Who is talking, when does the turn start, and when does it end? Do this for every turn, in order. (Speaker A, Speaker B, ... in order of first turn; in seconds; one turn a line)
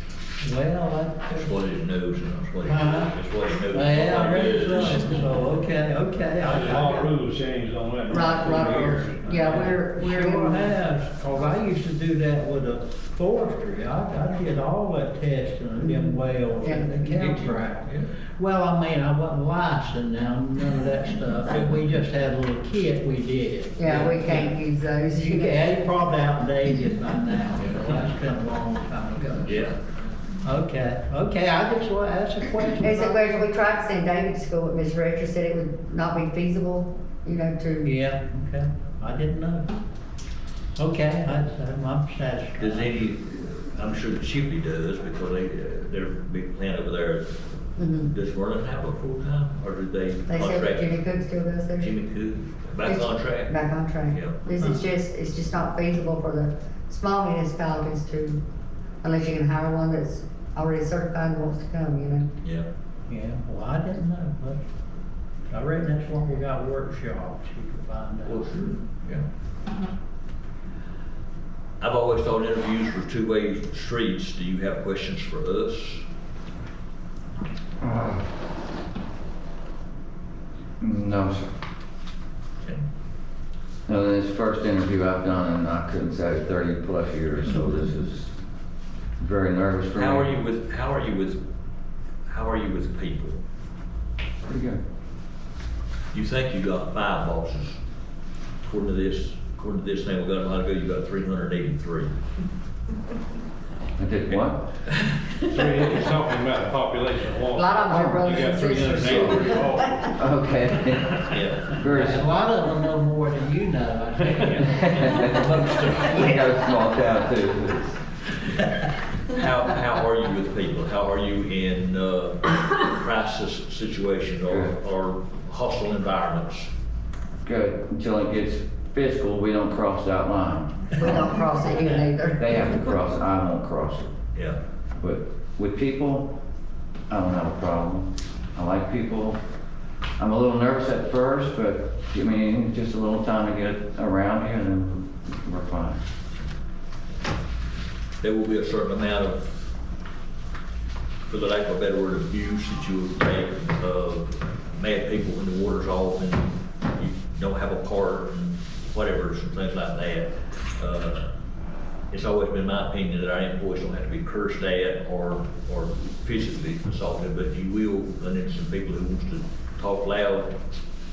Speaker A: 0.4-1.5
Speaker B: 1.3-5.5
Speaker A: 2.6-3.1
Speaker A: 3.7-7.1
Speaker C: 6.4-9.6
Speaker D: 8.1-10.7
Speaker A: 8.6-24.5
Speaker D: 15.8-17.5
Speaker D: 23.8-25.7
Speaker A: 25.1-29.7
Speaker B: 29.4-29.8
Speaker A: 30.4-33.4
Speaker D: 32.8-37.9
Speaker A: 37.8-39.8
Speaker A: 40.8-42.9
Speaker B: 42.6-51.0
Speaker D: 47.8-48.1
Speaker D: 50.3-51.9
Speaker B: 51.8-53.5
Speaker D: 52.9-58.4
Speaker B: 54.1-54.4
Speaker D: 59.0-62.3
Speaker A: 63.1-64.6
Speaker A: 65.5-68.5
Speaker B: 68.2-69.2
Speaker B: 71.8-76.0
Speaker E: 77.8-78.2
Speaker E: 80.8-81.5
Speaker E: 83.9-88.3
Speaker E: 89.2-90.3
Speaker B: 89.9-91.4
Speaker B: 92.3-93.4
Speaker E: 94.4-94.8
Speaker B: 96.1-97.8
Speaker B: 98.6-102.1
Speaker E: 104.0-104.7
Speaker C: 105.5-110.2
Speaker D: 107.5-110.1
Speaker E: 110.1-112.2
Speaker B: 111.1-111.8
Speaker A: 111.8-115.3
Speaker B: 114.4-116.5
Speaker E: 114.8-118.0
Speaker B: 119.3-126.7
Speaker E: 124.5-124.7
Speaker E: 127.4-131.5
Speaker D: 130.9-132.8
Speaker E: 132.3-134.2
Speaker E: 134.9-136.3
Speaker E: 137.1-139.4
Speaker E: 140.2-146.0
Speaker B: 148.2-149.5
Speaker B: 151.3-161.3
Speaker B: 162.1-170.6